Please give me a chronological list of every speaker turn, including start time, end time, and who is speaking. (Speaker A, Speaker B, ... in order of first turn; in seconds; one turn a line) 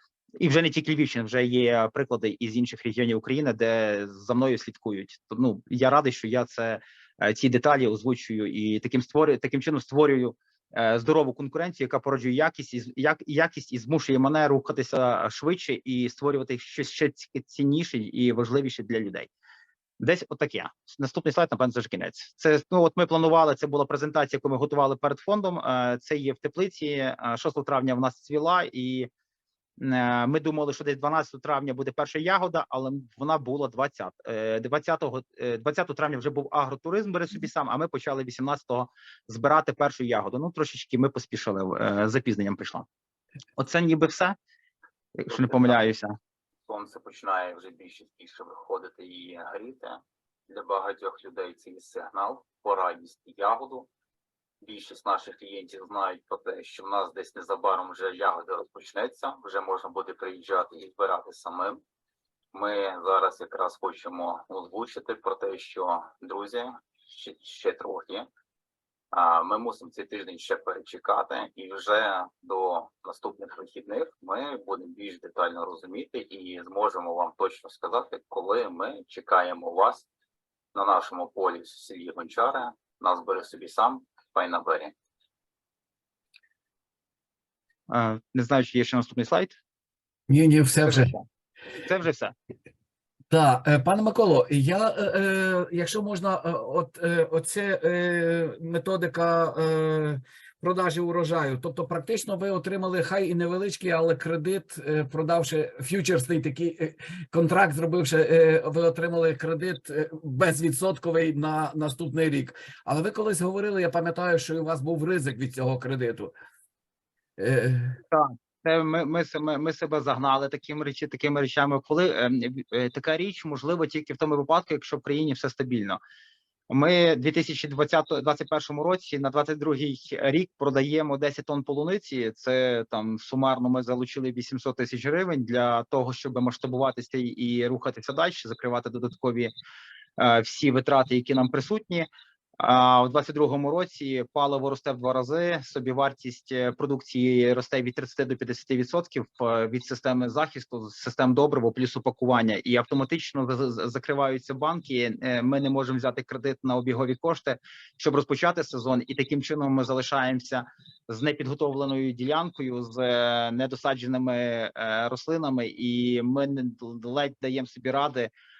Speaker A: 0.4-19.3
Speaker A: 20.0-29.1
Speaker A: 29.8-42.9
Speaker A: 43.6-44.4
Speaker A: 45.2-46.1
Speaker B: 46.7-49.9
Speaker A: 46.7-49.9
Speaker A: 50.5-53.8
Speaker B: 51.6-53.9
Speaker B: 54.6-57.2
Speaker A: 54.7-59.2
Speaker B: 57.8-58.1
Speaker B: 58.7-61.8
Speaker A: 59.9-61.5
Speaker B: 62.5-66.7
Speaker A: 63.1-63.8
Speaker A: 67.2-67.6
Speaker B: 67.2-68.2
Speaker B: 69.1-80.0
Speaker A: 70.1-70.9
Speaker A: 71.6-74.2
Speaker A: 76.1-77.8
Speaker A: 79.0-80.0
Speaker B: 80.8-84.9
Speaker A: 80.8-84.8
Speaker A: 87.9-89.6
Speaker C: 90.3-91.1
Speaker A: 90.8-91.2
Speaker A: 91.8-92.3
Speaker C: 93.3-116.3
Speaker C: 117.4-118.0
Speaker A: 118.1-126.0
Speaker A: 126.7-139.5
Speaker A: 140.2-142.1
Speaker A: 142.6-168.3